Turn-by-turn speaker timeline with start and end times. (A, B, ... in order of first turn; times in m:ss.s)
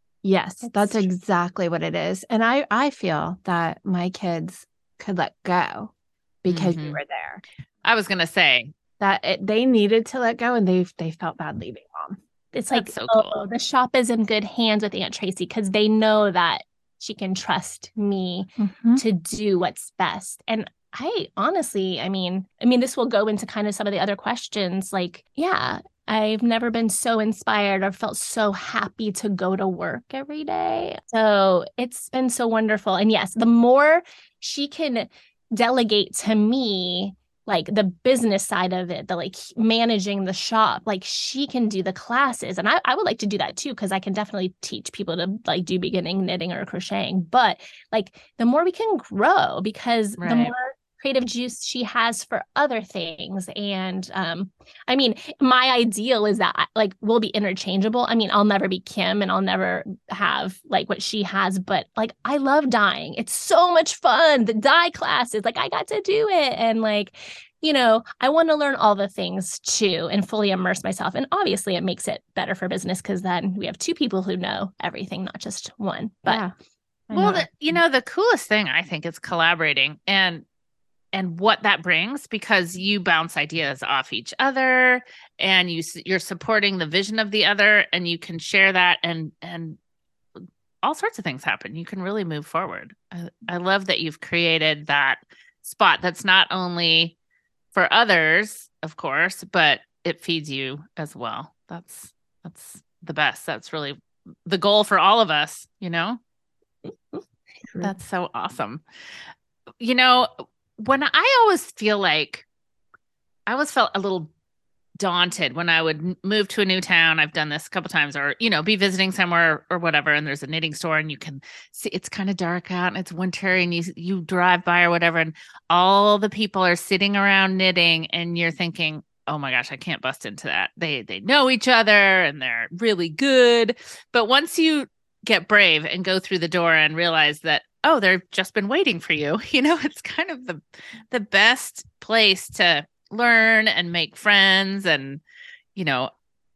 0:00.2-0:05.9 A
0:06.4-0:07.4 A
0:06.5-0:07.0 B
0:07.8-0:08.7 B
0:09.0-0:12.2 A
0:12.5-1:16.4 C
0:12.7-0:13.4 B
0:18.6-0:19.0 A
0:50.2-0:50.5 B
1:16.2-1:16.5 A
1:17.1-1:17.8 A
1:17.1-1:20.4 B
1:21.1-1:29.8 B
1:30.4-1:37.1 B
1:37.7-1:46.2 B
1:47.8-1:48.8 B
1:49.8-1:52.4 B
1:53.5-1:54.3 B
1:55.0-2:25.2 B
2:25.7-2:26.1 B